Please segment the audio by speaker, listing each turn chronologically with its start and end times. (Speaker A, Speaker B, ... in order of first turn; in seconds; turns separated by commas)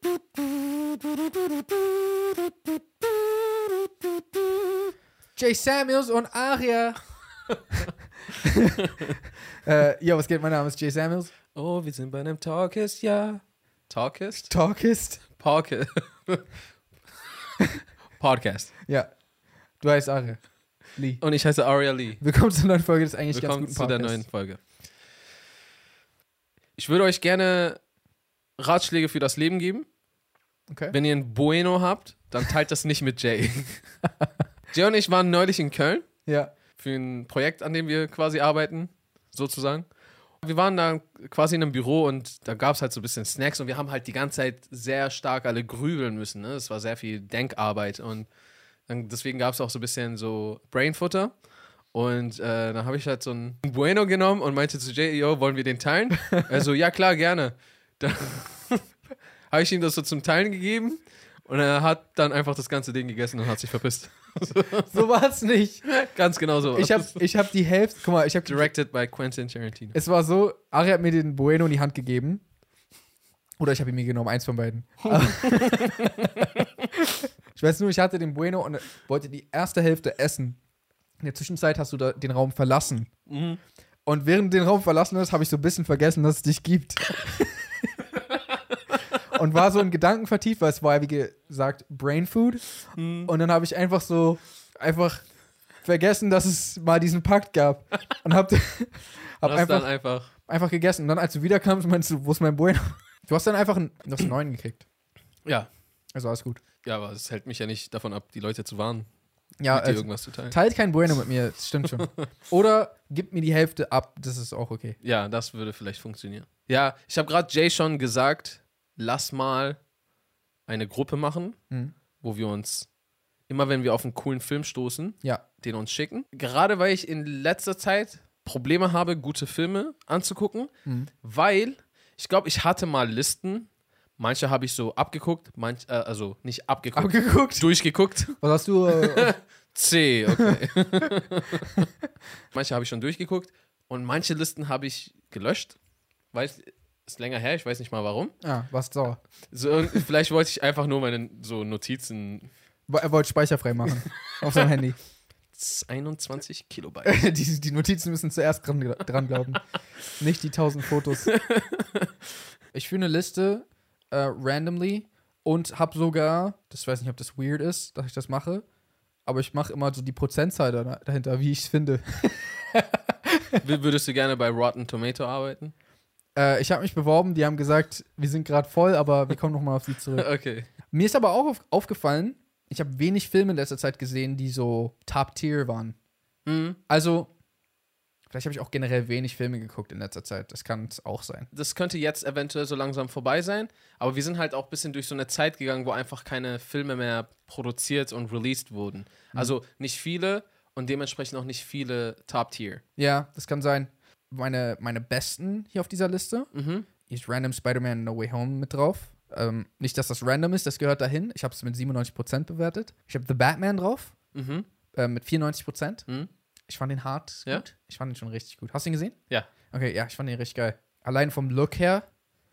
Speaker A: 5.4-7.0, Speaker B: 7.5-7.9, Speaker A: 8.4-8.9, Speaker B: 8.9-9.2, Speaker A: 9.5-11.3, Speaker B: 11.5-14.5, Speaker A: 14.4-15.2, Speaker B: 15.4-16.5, Speaker B: 18.2-18.7, Speaker A: 19.8-21.2, Speaker B: 21.2-22.2, Speaker A: 22.2-24.3, Speaker B: 23.3-24.6, Speaker B: 26.8-27.8, Speaker B: 28.6-29.9, Speaker A: 30.7-30.9, Speaker B: 30.9-33.9, Speaker B: 34.7-36.1, Speaker A: 36.2-36.5, Speaker B: 36.8-39.8, Speaker B: 40.4-48.3, Speaker B: 48.9-51.3, Speaker B: 51.9-58.8, Speaker B: 59.5-65.0, Speaker A: 64.9-65.8, Speaker B: 65.8-67.2, Speaker A: 66.7-68.7, Speaker B: 68.5-70.0, Speaker A: 69.9-72.4, Speaker A: 73.6-80.6, Speaker B: 75.2-76.5, Speaker A: 81.2-83.1, Speaker B: 83.3-83.6, Speaker A: 84.0-88.0, Speaker A: 89.3-95.2, Speaker B: 92.9-93.3, Speaker A: 95.8-104.8, Speaker B: 99.4-100.3, Speaker A: 106.1-106.6, Speaker B: 106.8-109.1, Speaker A: 109.6-115.0, Speaker B: 109.7-110.6, Speaker B: 115.0-119.8, Speaker B: 120.7-121.6, Speaker B: 122.2-122.9, Speaker B: 123.5-130.7, Speaker B: 131.2-141.9, Speaker A: 136.9-137.7, Speaker A: 138.4-139.3, Speaker B: 142.5-145.8, Speaker B: 146.3-148.3, Speaker A: 148.4-149.2, Speaker B: 149.5-152.5, Speaker A: 152.9-154.9, Speaker B: 155.5-157.2, Speaker A: 157.0-159.6, Speaker A: 160.2-161.3, Speaker B: 161.2-162.1, Speaker A: 162.7-168.7, Speaker A: 169.2-173.6, Speaker B: 173.6-175.7, Speaker A: 176.3-180.3, Speaker B: 180.2-180.7, Speaker A: 180.9-185.9, Speaker B: 186.4-186.8, Speaker A: 186.9-187.3, Speaker A: 188.3-191.5, Speaker B: 191.5-202.8, Speaker A: 203.0-206.5, Speaker B: 206.5-206.9, Speaker A: 207.1-214.1, Speaker B: 214.3-214.7, Speaker A: 214.9-216.1, Speaker A: 216.7-219.2, Speaker A: 219.7-222.1